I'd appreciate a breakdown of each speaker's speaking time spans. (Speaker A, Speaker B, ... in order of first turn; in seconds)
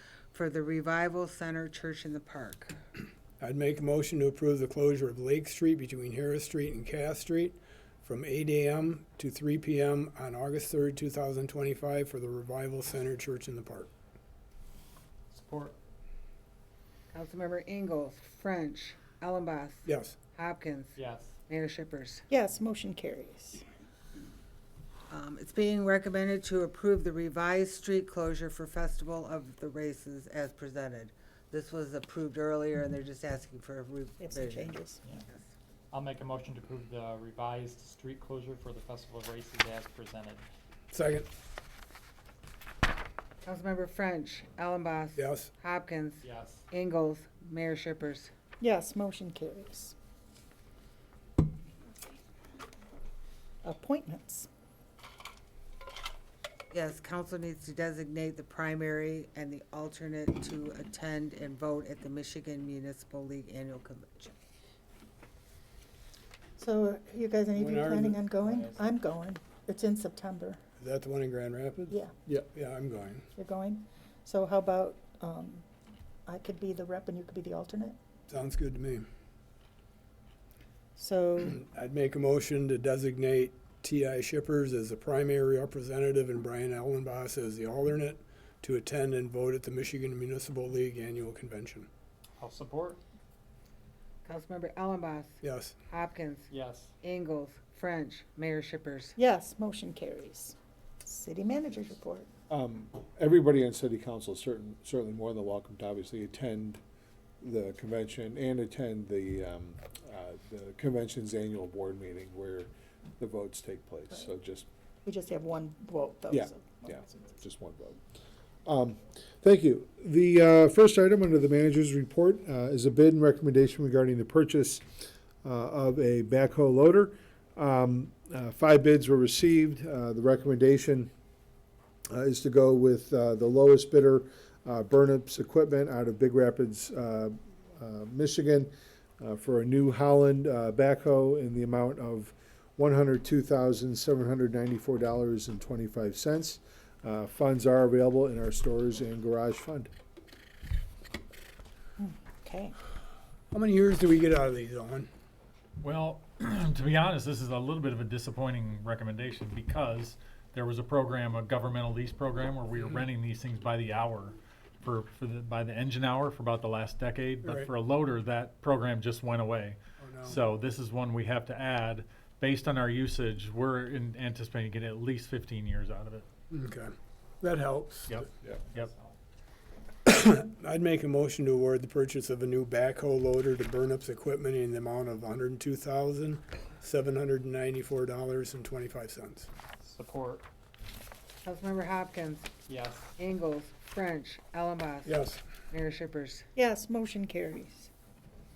Speaker A: 0.3-2.8, 17.1-20.9, 21.5-22.2, 25.1-35.5, 43.4-48.3, 56.7-64.3, 94.2-96.5, 97.0-99.2, 191.4-192.5, 193.2-196.4
Speaker B: 3.4-13.9, 19.9-20.1, 40.9-41.2, 45.1-45.5, 67.5-68.3, 70.8-73.3, 78.3-79.0, 81.5-91.9, 95.4-95.7, 153.5-155.1, 167.4-167.7, 170.0-170.4, 176.5-178.2, 180.1-189.5, 195.0-195.4
Speaker C: 15.3-15.7, 20.9-21.3, 35.9-40.4, 46.2-46.6, 92.4-93.0, 96.5-96.9, 189.8-190.4, 192.7-193.1
Speaker D: 22.3-23.6, 34.2-35.1, 48.6-49.9, 53.6-54.5, 66.6-70.6, 71.9-72.1, 73.3-75.6, 76.2-78.0, 81.0-81.6, 99.2-100.5, 101.0-102.3, 115.0-117.2, 152.0-152.7, 196.6-197.9
Speaker E: 102.5-106.8, 107.4-114.7, 116.3-118.0, 118.6-131.1, 132.1-149.9
Speaker F: 155.8-176.3, 178.1-178.9